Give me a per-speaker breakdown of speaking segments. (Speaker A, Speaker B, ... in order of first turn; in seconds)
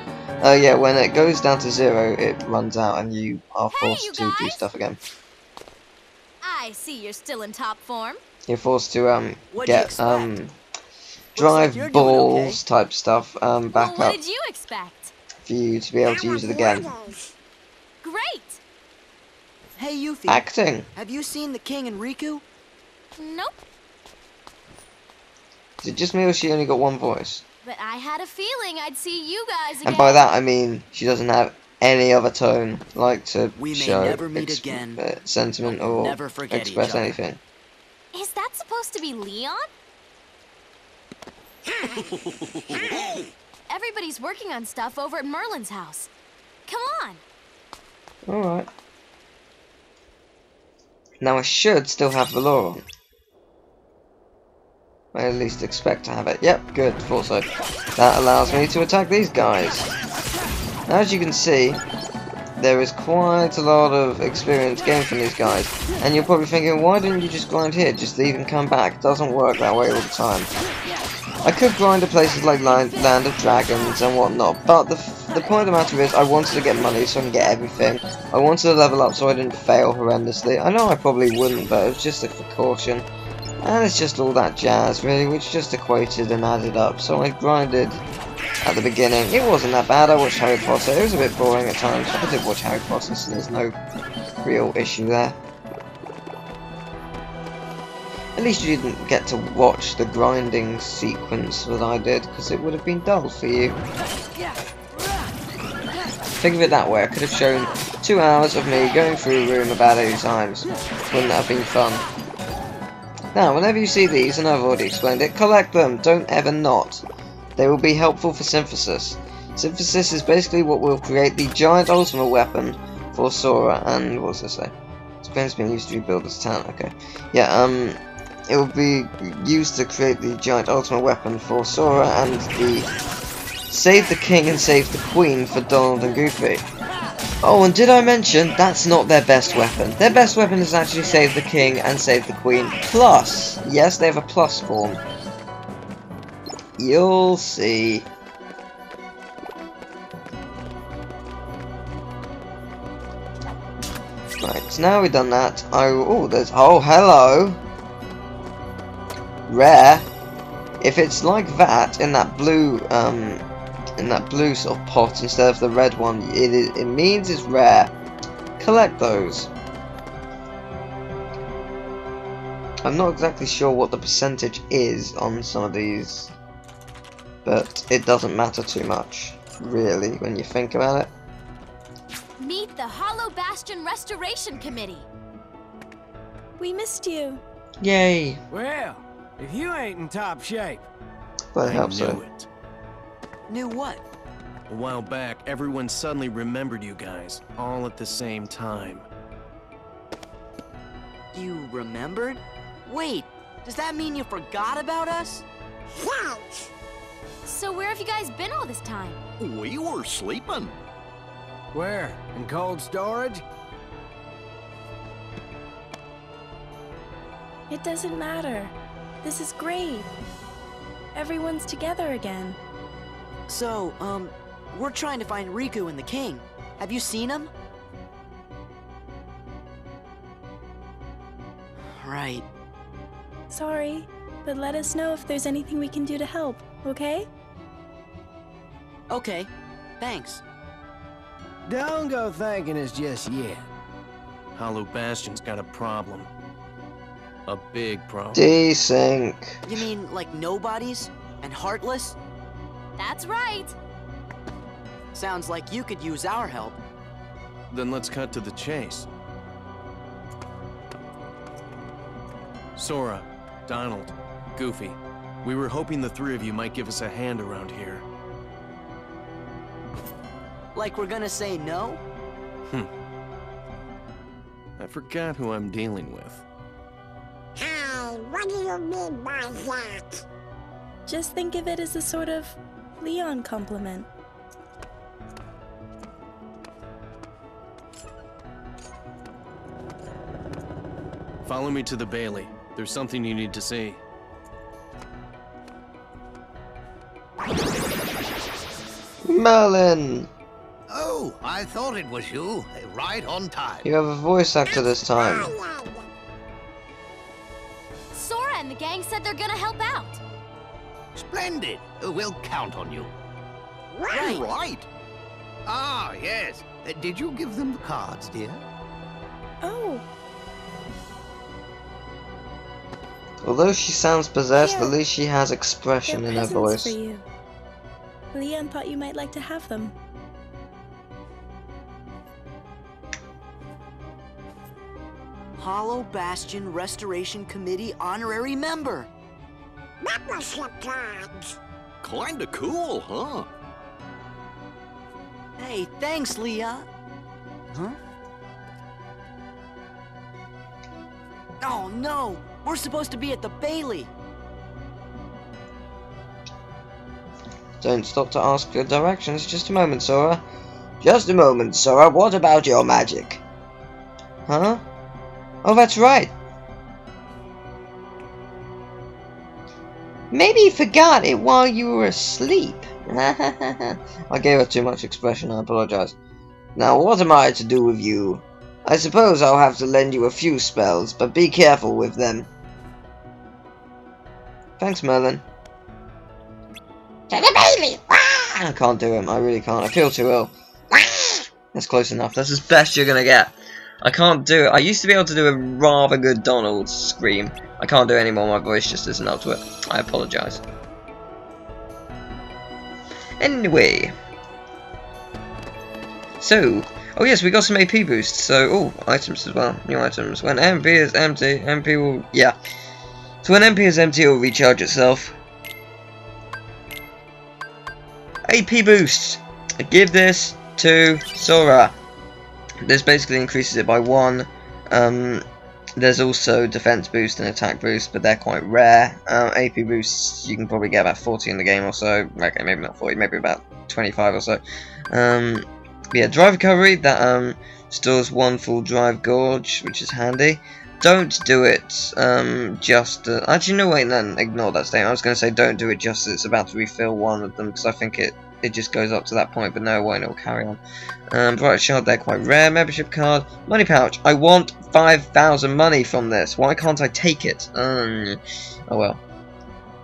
Speaker A: 0.4-5.0, 8.5-10.5, 11.4-14.2, 15.4-16.9, 20.3-20.9, 25.8-27.4, 29.8-37.4, 48.3-48.7, 51.2-52.8, 55.1-59.9, 60.9-61.8, 62.6-70.5, 71.4-83.1, 83.6-88.0, 88.6-93.8, 94.4-95.4, 98.4-103.8, 106.4-112.0, 113.3-117.0, 117.6-132.9, 133.7-136.7, 137.4-145.0, 146.8-148.1, 154.4-157.6, 159.5-160.1, 160.8-163.4, 164.0-167.9, 168.6-169.5, 172.8-176.3, 177.4-181.1, 187.8-188.4, 191.5-192.2, 248.3-249.6, 299.2-300.3, 303.8-305.5, 323.4-327.0, 357.8-360.4, 361.0-363.4, 364.5-364.8, 365.6-366.3, 370.3-376.1, 376.8-382.5, 384.8-385.4, 387.3-387.6, 388.5-390.5, 391.7-400.6, 403.4-404.1, 406.4-412.5, 413.4-415.4, 418.5-421.9, 422.8-425.4, 426.0-459.2
Speaker B: 3.7-4.7, 6.4-8.2, 13.7-15.1, 18.0-18.6, 23.2-23.6, 27.6-30.3, 38.1-39.6, 43.7-46.1, 46.7-47.2, 182.4-185.1, 207.5-209.2, 253.0-253.8, 308.1-310.2
Speaker C: 9.5-10.3, 11.4-12.6, 19.8-20.4, 20.9-22.4, 33.6-35.0, 35.6-37.2, 193.5-194.0, 201.3-205.4, 223.5-227.5, 231.9-232.5, 239.1-240.4, 249.7-252.2, 255.1-256.8, 270.7-272.0, 314.1-314.4, 335.6-339.1, 345.6-346.9, 347.7-348.0, 351.6-354.1
Speaker D: 16.0-17.2, 41.6-43.3, 206.0-206.7, 277.6-280.2, 304.7-306.1, 313.9-314.4, 340.0-341.6, 387.3-388.5, 390.9-391.4
Speaker E: 41.9-43.3, 209.4-210.8, 314.1-314.9, 342.0-343.5
Speaker F: 186.6-187.4, 217.7-220.1, 221.1-222.6, 233.5-237.3, 281.1-284.1, 319.6-320.0, 324.6-324.9, 326.1-327.2, 328.3-329.9
Speaker G: 188.5-190.9, 211.7-213.4, 241.7-243.7
Speaker H: 191.6-192.5, 194.7-199.0, 244.5-246.3, 247.5-248.5, 257.7-259.1, 262.8-268.0, 274.8-276.4, 291.4-294.0
Speaker I: 300.9-303.9, 311.1-313.1, 315.6-318.6